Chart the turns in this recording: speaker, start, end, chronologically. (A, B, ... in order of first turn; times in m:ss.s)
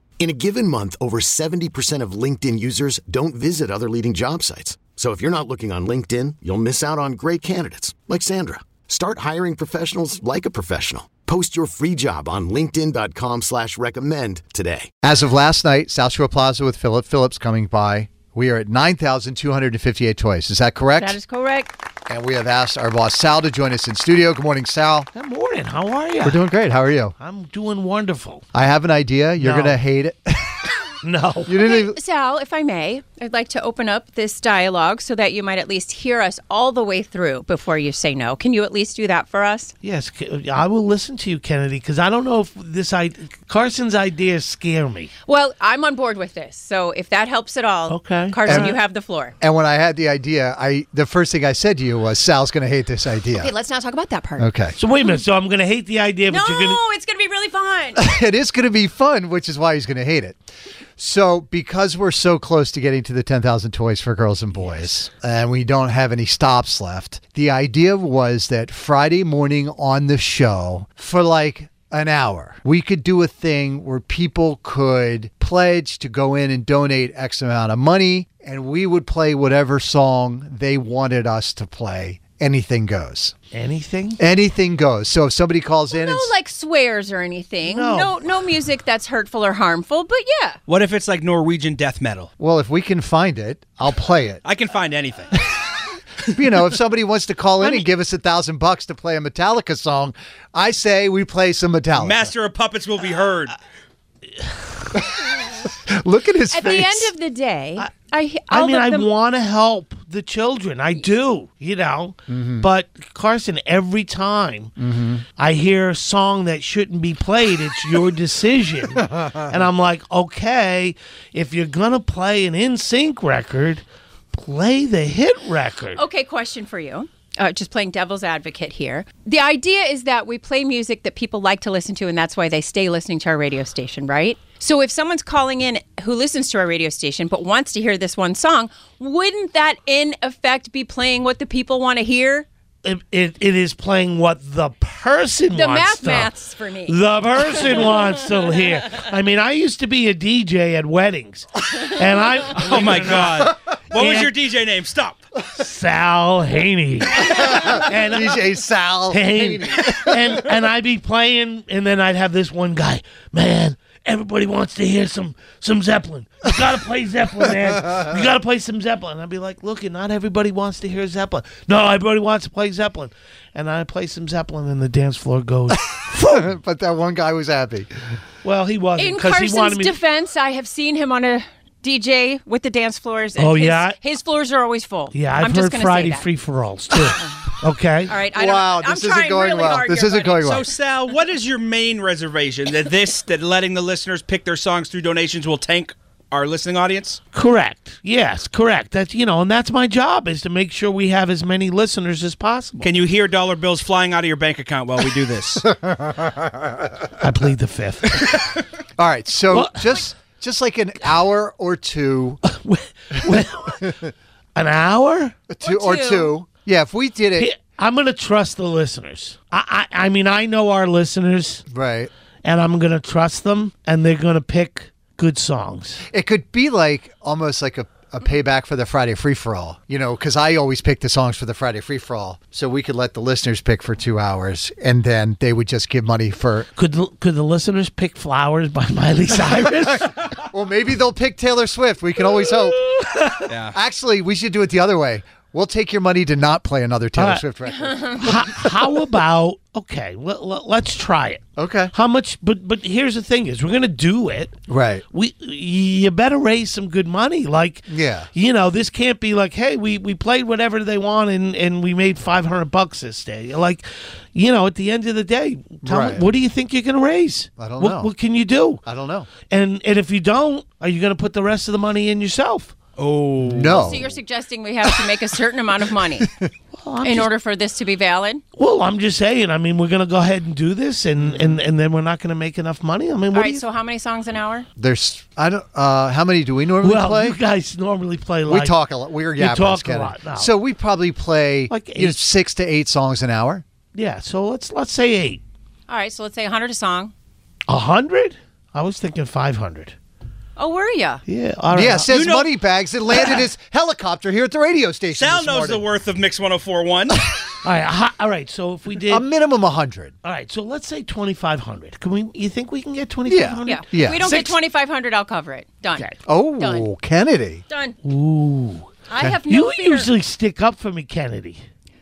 0:00.2-0:14.9 A
0:15.0-0:21.2 B
0:21.0-0:21.7 C
0:22.1-0:25.1 B
0:25.1-0:26.4 D
0:26.2-0:27.2 B
0:27.2-0:28.4 D
0:28.5-0:30.8 B
0:29.4-0:29.8 D
0:31.0-0:31.5 D
0:31.5-0:32.0 B
0:31.6-0:39.7 C
0:39.8-0:45.1 D
0:45.3-0:49.3 C
0:47.9-0:48.8 D
0:48.5-0:48.8 B
0:49.4-0:53.5 B
0:53.4-0:54.5 C
0:54.4-0:54.8 B
0:54.8-0:56.8 D
0:56.3-0:58.0 C
0:58.0-1:00.4 B
1:01.0-1:23.3 B
1:23.5-1:24.2 D
1:24.2-1:26.3 B
1:25.9-1:30.6 C
1:27.6-1:28.2 D
1:30.7-1:32.3 E
1:32.4-1:34.4 B
1:34.4-1:35.3 E
1:36.3-1:42.3 B
1:42.0-1:43.6 E
1:45.0-1:47.1 B
1:46.5-1:49.1 C
1:48.5-1:54.7 D
1:52.3-1:52.7 B
1:54.8-1:55.2 B
1:55.4-2:06.0 D
2:06.0-2:22.5 C
2:22.8-2:26.4 D
2:25.5-2:27.8 C
2:26.9-2:34.4 D
2:32.6-2:35.2 E
2:35.5-2:38.5 D
2:37.4-2:40.4 B
2:39.1-2:56.5 D
2:56.0-2:57.9 B
2:58.4-3:00.0 D
2:59.0-3:06.3 C
3:03.4-3:04.0 D
3:05.1-3:08.2 D
3:08.1-3:10.7 C
3:08.3-3:10.7 B
3:10.5-3:17.2 E
3:17.3-3:22.9 D
3:22.8-3:25.6 E
3:25.7-3:26.3 B
3:27.2-3:28.5 D
3:29.0-3:32.4 B
3:29.5-3:30.0 D
3:32.4-3:34.0 D
3:33.3-3:33.8 B
3:34.6-3:35.4 D
3:35.5-3:37.5 B
3:35.6-3:36.4 C
3:37.4-3:41.6 D
3:41.7-3:42.1 B
3:42.4-3:46.0 D
3:46.1-3:56.7 B
3:56.8-4:00.1 D
4:00.0-4:08.6 B
4:07.2-4:07.5 D
4:08.1-4:14.6 D
4:11.6-4:11.9 B
4:14.7-4:15.0 B
4:15.1-4:28.8 D
4:17.9-4:18.3 B
4:25.8-4:26.3 B
4:27.6-4:28.1 B
4:28.8-4:29.3 B
4:29.5-4:32.8 D
4:33.0-4:33.8 E
4:33.4-4:34.1 B
4:33.8-4:36.3 C
4:36.2-4:36.5 B
4:36.8-4:37.3 D
4:37.0-4:38.4 C
4:38.6-4:43.6 D
4:41.2-4:41.6 B
4:43.3-4:44.7 C
4:44.8-4:47.4 B
4:46.8-4:50.5 D
4:48.4-4:53.6 B
4:51.7-4:52.2 D
4:53.9-4:55.4 D
4:55.9-4:57.1 C
4:57.7-5:00.0 D
5:00.6-5:01.2 C
5:01.3-5:02.1 D
5:01.7-5:05.9 B
5:02.1-5:02.5 E
5:05.1-5:07.2 E
5:07.6-5:09.2 D
5:09.0-5:10.1 B
5:10.2-5:14.6 D
5:13.3-5:14.2 B
5:13.7-5:16.9 C
5:16.3-5:17.6 B
5:17.7-5:18.0 C
5:18.0-5:18.9 D
5:19.1-5:20.1 C
5:19.5-5:21.6 D